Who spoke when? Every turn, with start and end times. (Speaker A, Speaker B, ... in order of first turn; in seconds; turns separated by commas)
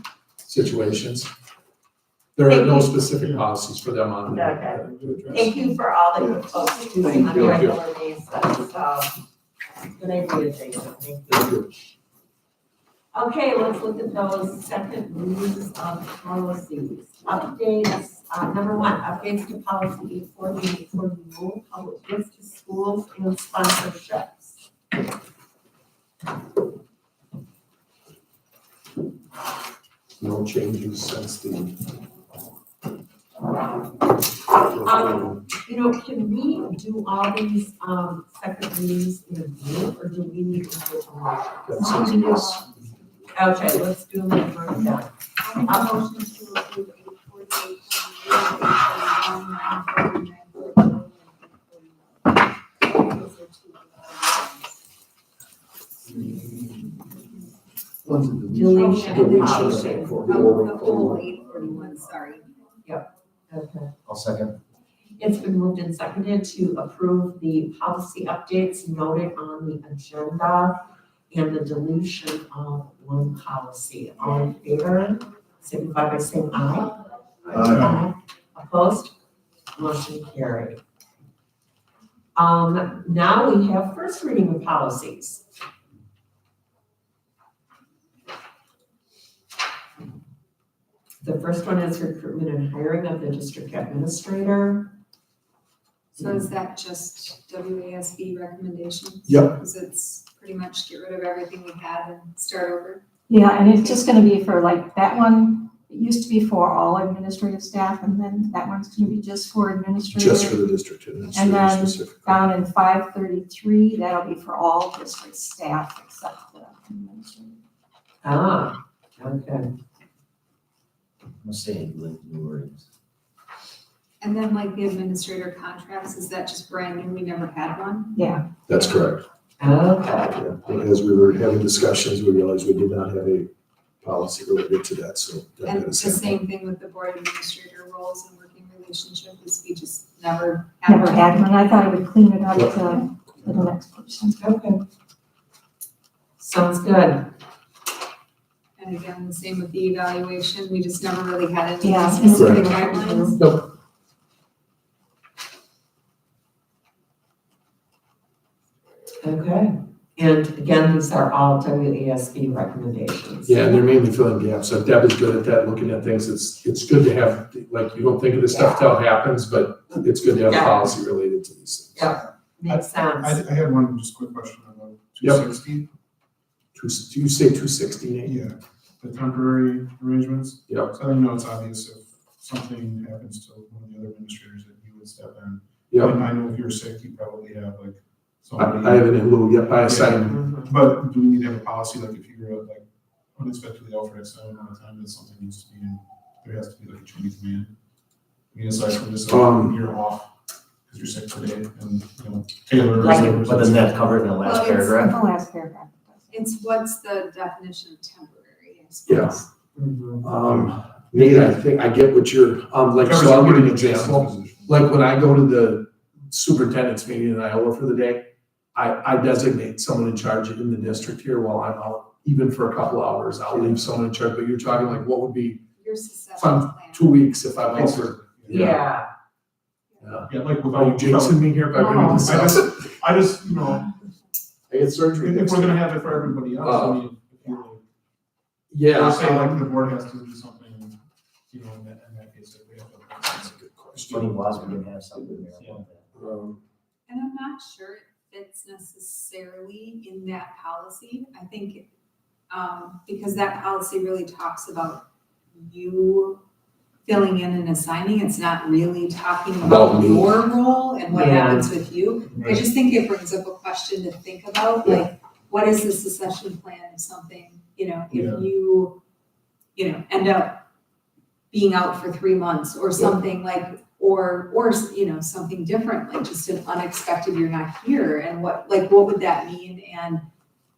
Speaker A: 0.4-1.3, Speaker A: 2.4-5.4, Speaker B: 2.5-2.9, Speaker C: 3.2-3.5, Speaker B: 4.3-9.1, Speaker C: 4.6-5.7, Speaker A: 7.0-7.8, Speaker B: 9.8-11.5, Speaker A: 11.3-11.7, Speaker B: 13.1-24.6, Speaker A: 30.2-31.8, Speaker A: 34.6-35.4, Speaker B: 34.9-41.9, Speaker A: 41.7-42.5, Speaker D: 41.8-42.6, Speaker E: 41.9-42.4, Speaker B: 43.4-45.1, Speaker E: 45.4-54.8, Speaker B: 45.7-46.0, Speaker F: 58.1-58.7, Speaker B: 58.5-60.3, Speaker E: 58.7-62.5, Speaker A: 59.0-61.3, Speaker B: 62.9-63.9, Speaker F: 64.1-64.5, Speaker B: 65.2-77.0, Speaker B: 77.5-79.2, Speaker B: 79.7-80.8, Speaker B: 82.4-85.4, Speaker B: 91.2-95.0, Speaker E: 96.2-103.0, Speaker A: 99.3-99.5, Speaker D: 103.3-110.6, Speaker E: 103.8-104.1, Speaker A: 110.2-112.4, Speaker D: 111.3-117.6, Speaker B: 118.2-119.7, Speaker F: 121.4-122.9, Speaker E: 124.2-128.2, Speaker D: 128.2-128.4, Speaker A: 128.7-129.2, Speaker B: 129.6-130.4, Speaker A: 130.3-133.5, Speaker A: 134.0-136.4, Speaker E: 135.6-141.7, Speaker D: 140.9-144.4, Speaker B: 144.4-144.8, Speaker B: 146.4-147.3, Speaker E: 148.8-153.3, Speaker D: 151.8-153.4, Speaker A: 152.3-152.7, Speaker A: 153.4-153.7, Speaker B: 159.2-163.6, Speaker A: 163.4-172.2, Speaker B: 168.5-168.8, Speaker B: 170.5-170.9, Speaker B: 171.9-173.4, Speaker C: 172.7-175.9, Speaker A: 176.8-178.4, Speaker C: 178.2-189.1, Speaker A: 188.6-190.4, Speaker C: 189.8-197.7, Speaker B: 190.3-190.7, Speaker C: 198.5-200.3, Speaker A: 199.3-199.8, Speaker C: 200.9-204.3, Speaker B: 203.0-203.4, Speaker F: 203.0-205.1, Speaker E: 204.4-205.3, Speaker D: 205.0-206.3, Speaker E: 206.3-209.5, Speaker A: 209.1-209.4, Speaker B: 209.8-210.2, Speaker A: 210.2-218.2, Speaker C: 210.4-211.6, Speaker C: 213.0-214.8, Speaker A: 218.8-225.6, Speaker C: 223.5-223.9, Speaker E: 225.8-227.3, Speaker A: 226.4-228.8, Speaker C: 227.6-228.8, Speaker B: 228.5-229.1, Speaker A: 230.0-232.9, Speaker C: 230.3-233.9, Speaker D: 231.8-232.3, Speaker A: 234.7-235.8, Speaker C: 235.2-237.8, Speaker A: 236.6-237.0, Speaker A: 238.7-239.6, Speaker C: 238.9-241.0, Speaker C: 241.5-244.8, Speaker A: 243.6-244.3, Speaker F: 244.0-246.1, Speaker C: 245.6-245.8, Speaker A: 246.1-246.6, Speaker E: 247.1-251.9, Speaker E: 252.5-256.4, Speaker E: 257.1-269.0, Speaker A: 259.6-260.3, Speaker B: 261.1-261.7, Speaker C: 262.3-262.6, Speaker C: 268.1-268.4, Speaker E: 269.8-270.6, Speaker E: 271.5-280.2